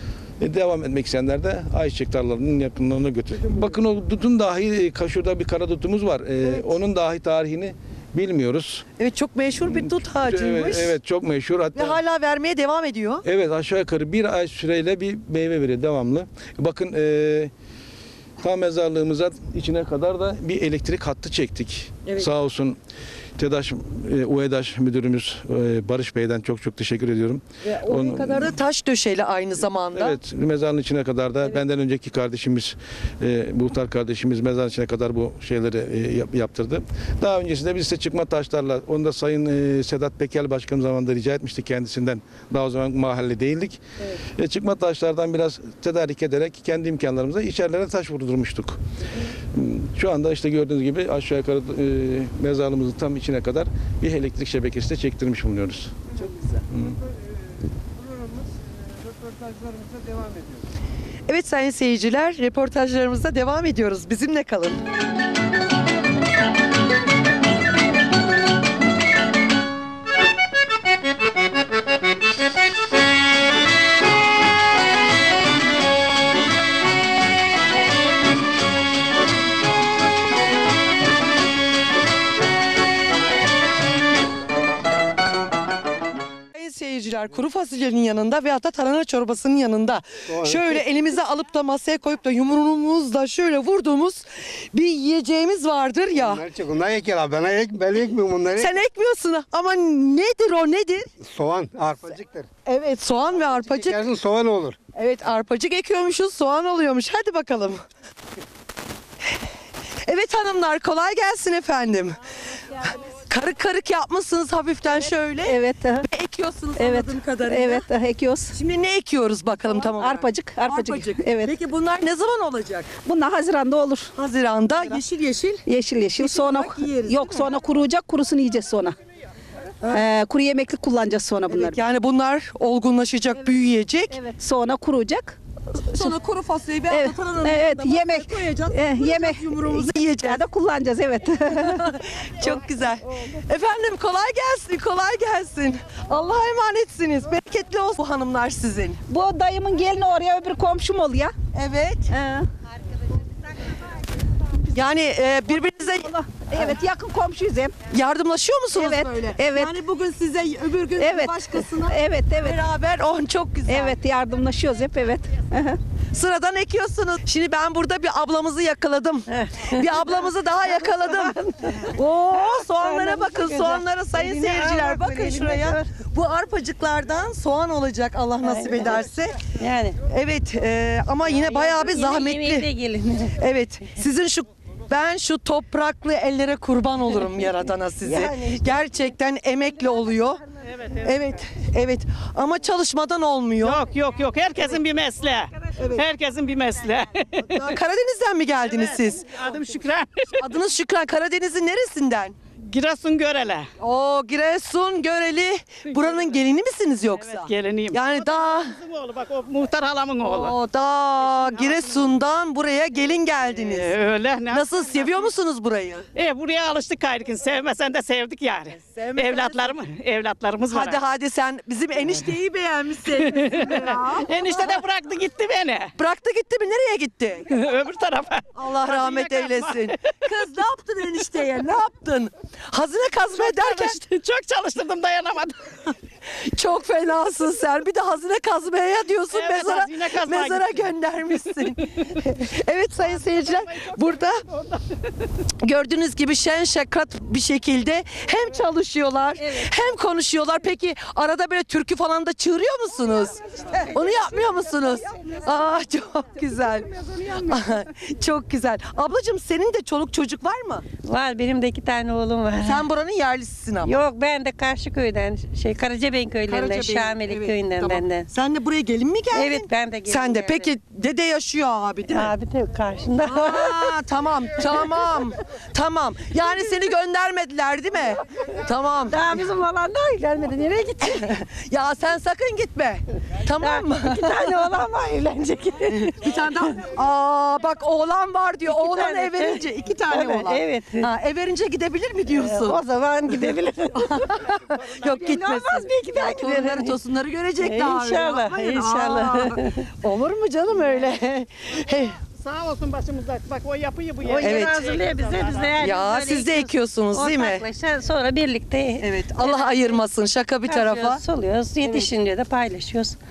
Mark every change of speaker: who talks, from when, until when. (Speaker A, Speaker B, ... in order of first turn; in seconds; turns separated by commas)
Speaker A: 0.4-8.8, Speaker B: 6.4-6.7, Speaker B: 9.0-10.9, Speaker A: 9.7-12.0, Speaker B: 11.7-13.2, Speaker A: 13.2-17.5, Speaker A: 18.4-22.8, Speaker A: 23.4-28.6, Speaker B: 27.6-30.2, Speaker A: 29.9-48.8, Speaker B: 44.0-44.2, Speaker A: 49.5-56.0, Speaker B: 56.1-56.6, Speaker A: 56.7-57.0, Speaker C: 56.8-57.4, Speaker C: 57.9-60.6, Speaker B: 61.3-64.8, Speaker B: 86.5-96.5, Speaker D: 90.3-90.8, Speaker D: 96.2-98.7, Speaker B: 98.5-101.1, Speaker D: 101.2-102.5, Speaker B: 102.6-104.0, Speaker D: 103.5-104.8, Speaker B: 104.9-107.8, Speaker B: 110.0-112.2, Speaker B: 112.8-117.9, Speaker E: 115.4-116.0, Speaker E: 116.8-118.5, Speaker B: 118.5-122.9, Speaker E: 119.8-121.5, Speaker E: 123.0-124.1, Speaker B: 124.2-125.6, Speaker E: 125.7-128.9, Speaker B: 126.2-127.5, Speaker E: 129.9-131.8, Speaker B: 131.5-134.2, Speaker E: 134.1-135.4, Speaker B: 135.9-140.4, Speaker E: 135.9-136.2, Speaker E: 136.9-141.9, Speaker B: 141.5-149.0, Speaker E: 149.1-151.3, Speaker B: 151.5-152.2, Speaker E: 152.1-152.4, Speaker B: 154.7-156.8, Speaker E: 156.3-157.7, Speaker B: 157.9-164.0, Speaker E: 158.7-159.8, Speaker E: 161.0-162.6, Speaker E: 163.7-165.8, Speaker B: 166.1-179.4, Speaker F: 169.3-170.1, Speaker F: 170.7-175.8, Speaker F: 178.4-180.0, Speaker B: 180.1-182.7, Speaker F: 181.3-183.3, Speaker B: 183.4-190.4, Speaker F: 188.0-188.6, Speaker G: 190.7-191.1, Speaker B: 190.9-193.8, Speaker G: 193.6-197.8, Speaker B: 195.8-196.0, Speaker B: 197.4-199.5, Speaker G: 198.6-200.4, Speaker B: 200.4-202.4, Speaker G: 202.6-203.7, Speaker B: 203.8-208.8, Speaker G: 205.8-206.4, Speaker G: 207.2-210.6, Speaker B: 210.2-213.9, Speaker G: 211.2-212.1, Speaker G: 213.5-215.3, Speaker B: 214.5-216.1, Speaker G: 216.1-221.0, Speaker B: 218.7-219.8, Speaker B: 220.7-224.8, Speaker G: 223.2-225.9, Speaker B: 225.9-227.5, Speaker G: 227.5-230.0, Speaker B: 228.5-234.0, Speaker G: 233.3-235.9, Speaker B: 236.4-244.4, Speaker G: 239.3-240.9, Speaker G: 243.4-245.0, Speaker B: 245.6-260.9, Speaker F: 261.0-262.8, Speaker B: 262.6-263.9, Speaker F: 263.8-268.3, Speaker B: 266.5-272.3, Speaker F: 269.3-270.7, Speaker F: 272.1-273.9, Speaker B: 273.2-279.4, Speaker F: 274.6-275.0, Speaker F: 279.1-281.3, Speaker B: 281.1-284.6, Speaker F: 283.6-286.3, Speaker B: 285.9-292.8, Speaker F: 288.6-291.1, Speaker F: 292.3-294.4, Speaker B: 293.9-302.2, Speaker F: 295.0-297.0, Speaker F: 297.6-299.9, Speaker G: 302.2-306.0, Speaker F: 304.2-310.0, Speaker B: 304.4-304.8, Speaker B: 305.8-307.6, Speaker B: 309.0-311.2, Speaker F: 310.6-313.2, Speaker B: 311.8-312.1